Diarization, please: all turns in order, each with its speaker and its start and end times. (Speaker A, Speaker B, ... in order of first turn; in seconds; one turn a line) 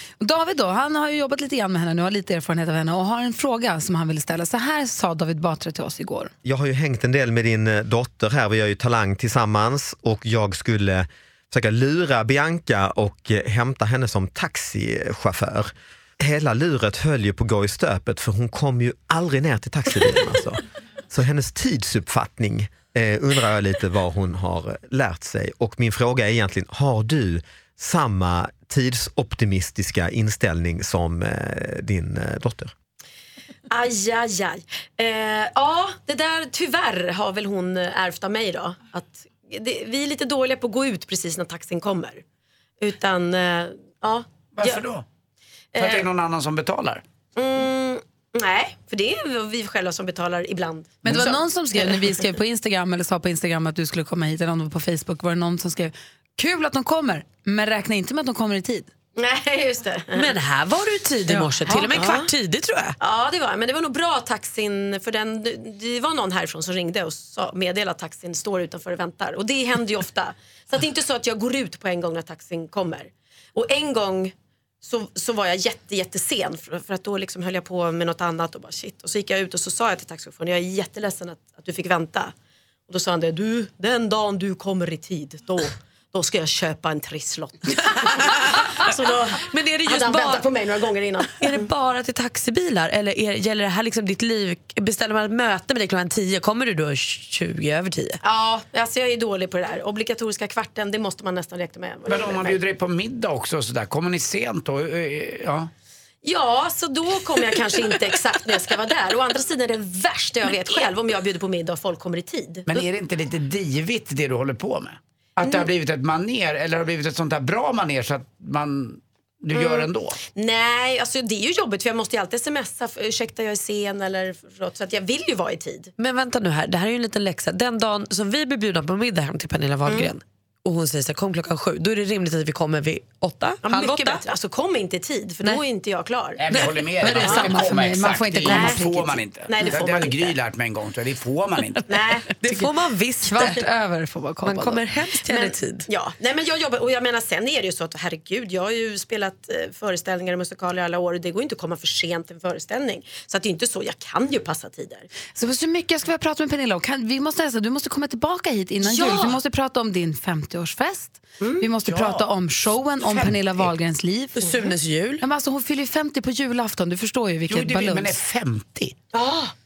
Speaker A: 0.2-6.3
Speaker B: 6.4-32.7
Speaker C: 33.7-42.2
Speaker C: 42.8-44.8
Speaker D: 44.5-45.0
Speaker C: 45.7-46.1
Speaker D: 45.8-47.0
Speaker C: 47.4-52.2
Speaker A: 51.0-58.9
Speaker C: 59.1-60.3
Speaker E: 60.1-63.0
Speaker A: 61.3-61.9
Speaker C: 61.9-62.3
Speaker C: 63.0-82.3
Speaker C: 82.9-91.7
Speaker E: 88.4-90.5
Speaker E: 91.3-98.2
Speaker C: 98.2-102.6
Speaker D: 102.1-105.7
Speaker C: 106.2-112.7
Speaker D: 112.7-120.2
Speaker C: 115.4-115.7
Speaker C: 119.5-125.9
Speaker E: 126.0-134.2
Speaker C: 129.8-130.1
Speaker C: 133.6-136.4
Speaker D: 136.4-142.0
Speaker A: 137.0-139.2
Speaker C: 137.1-137.4
Speaker C: 138.4-140.3
Speaker C: 141.9-142.3
Speaker E: 142.4-143.6
Speaker A: 143.2-144.8
Speaker E: 144.4-145.9
Speaker C: 145.3-155.1
Speaker A: 155.3-168.2
Speaker C: 158.8-159.3
Speaker C: 161.4-161.7
Speaker D: 161.8-162.3
Speaker D: 163.0-163.7
Speaker E: 164.3-165.2
Speaker D: 167.5-169.0
Speaker C: 169.1-169.5